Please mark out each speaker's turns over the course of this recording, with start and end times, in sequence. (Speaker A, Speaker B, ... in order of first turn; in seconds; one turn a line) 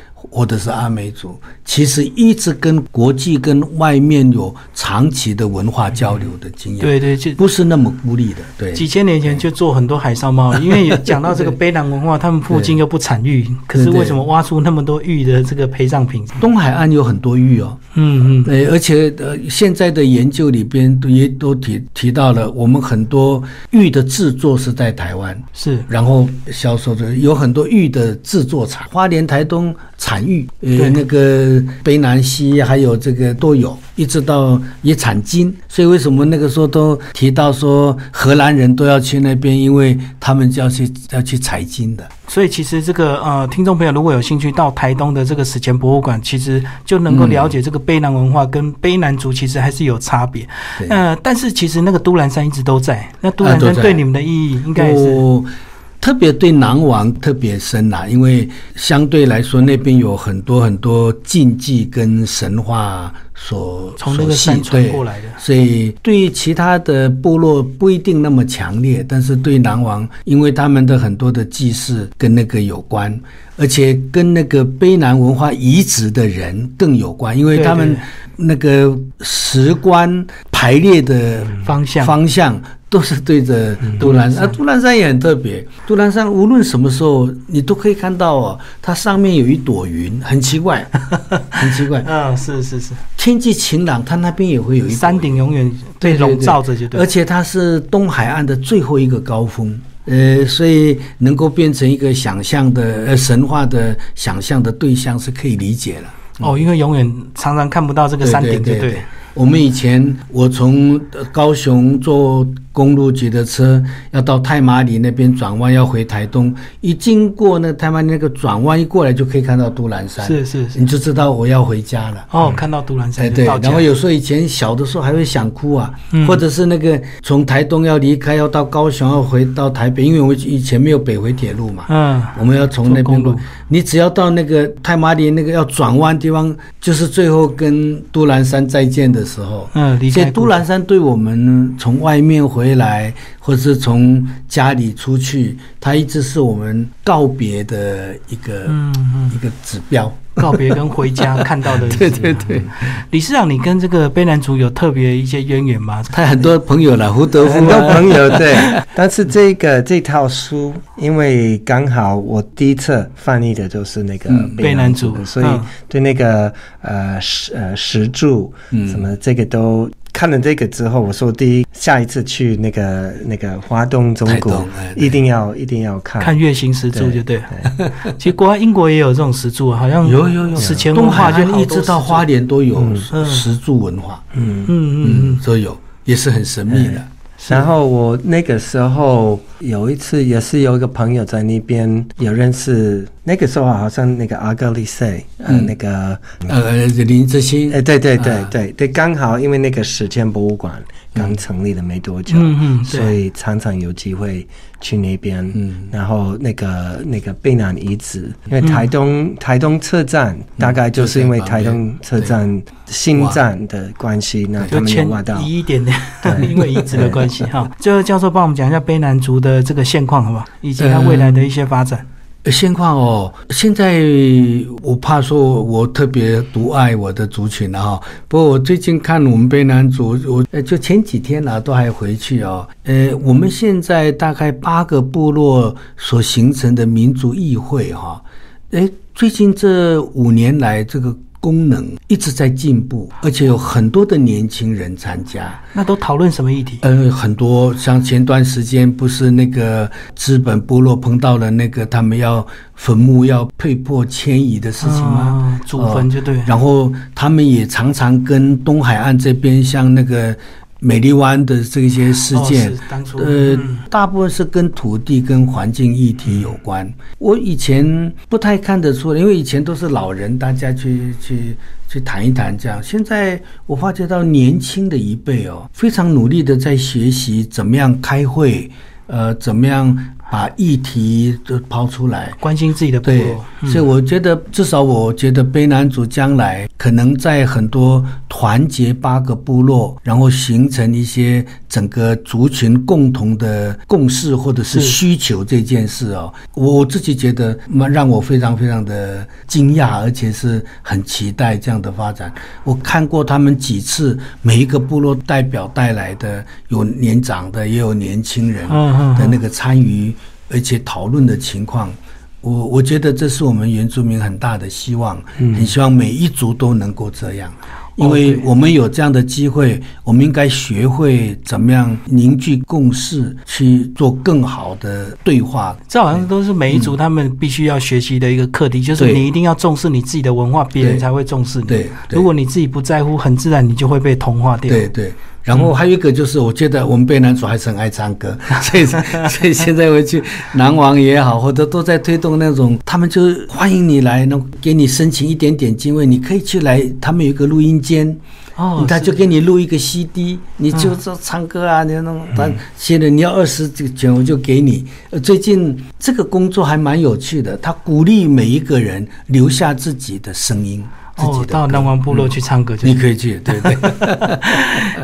Speaker A: 0.3-9.4
Speaker B: 6.8-7.4
Speaker B: 8.7-16.4
Speaker A: 10.6-11.6
Speaker A: 12.5-12.8
Speaker A: 13.7-14.3
Speaker A: 16.4-17.8
Speaker B: 17.9-18.5
Speaker A: 18.4-42.1
Speaker B: 25.6-25.9
Speaker B: 42.3-55.2
Speaker A: 47.1-47.5
Speaker A: 53.4-54.0
Speaker A: 54.7-55.5
Speaker A: 56.0-91.0
Speaker B: 64.0-65.4
Speaker B: 77.5-78.0
Speaker B: 81.5-82.2
Speaker B: 84.0-84.6
Speaker B: 91.3-93.0
Speaker A: 91.5-92.1
Speaker A: 93.2-106.6
Speaker B: 94.9-97.1
Speaker B: 106.4-109.1
Speaker A: 108.2-122.5
Speaker B: 120.2-120.8
Speaker B: 122.3-123.9
Speaker A: 123.2-148.8
Speaker B: 126.1-126.4
Speaker B: 131.9-133.5
Speaker B: 139.7-140.6
Speaker B: 148.7-149.4
Speaker A: 149.3-152.8
Speaker B: 150.4-156.1
Speaker A: 156.1-158.7
Speaker C: 157.4-176.4
Speaker A: 164.3-164.7
Speaker B: 164.6-165.7
Speaker A: 168.7-169.0
Speaker A: 174.2-175.2
Speaker B: 176.2-182.2
Speaker C: 176.9-177.7
Speaker A: 180.0-184.2
Speaker C: 180.6-180.9
Speaker C: 182.8-183.0
Speaker B: 183.1-183.4
Speaker C: 184.3-184.7
Speaker B: 184.7-185.4
Speaker A: 185.0-187.1
Speaker C: 186.7-196.5
Speaker B: 187.4-187.7
Speaker A: 195.5-195.7
Speaker A: 196.5-198.5
Speaker C: 197.7-215.5
Speaker B: 202.3-203.2
Speaker A: 205.5-205.9
Speaker B: 208.6-208.9
Speaker A: 210.6-212.4
Speaker A: 213.1-213.4
Speaker B: 214.7-222.1
Speaker C: 216.2-217.2
Speaker A: 216.4-217.3
Speaker A: 220.8-221.5
Speaker A: 222.4-245.6
Speaker B: 245.7-246.8
Speaker A: 246.8-282.4
Speaker B: 254.8-256.5
Speaker B: 262.3-263.8
Speaker B: 282.4-283.8
Speaker A: 283.0-326.9
Speaker B: 294.7-295.0
Speaker B: 308.7-309.4
Speaker B: 318.0-318.5
Speaker B: 325.9-334.9
Speaker A: 329.0-329.3
Speaker A: 330.8-331.1
Speaker A: 331.7-332.3
Speaker A: 334.7-348.2
Speaker B: 348.6-349.2
Speaker A: 348.8-364.6
Speaker B: 361.2-364.8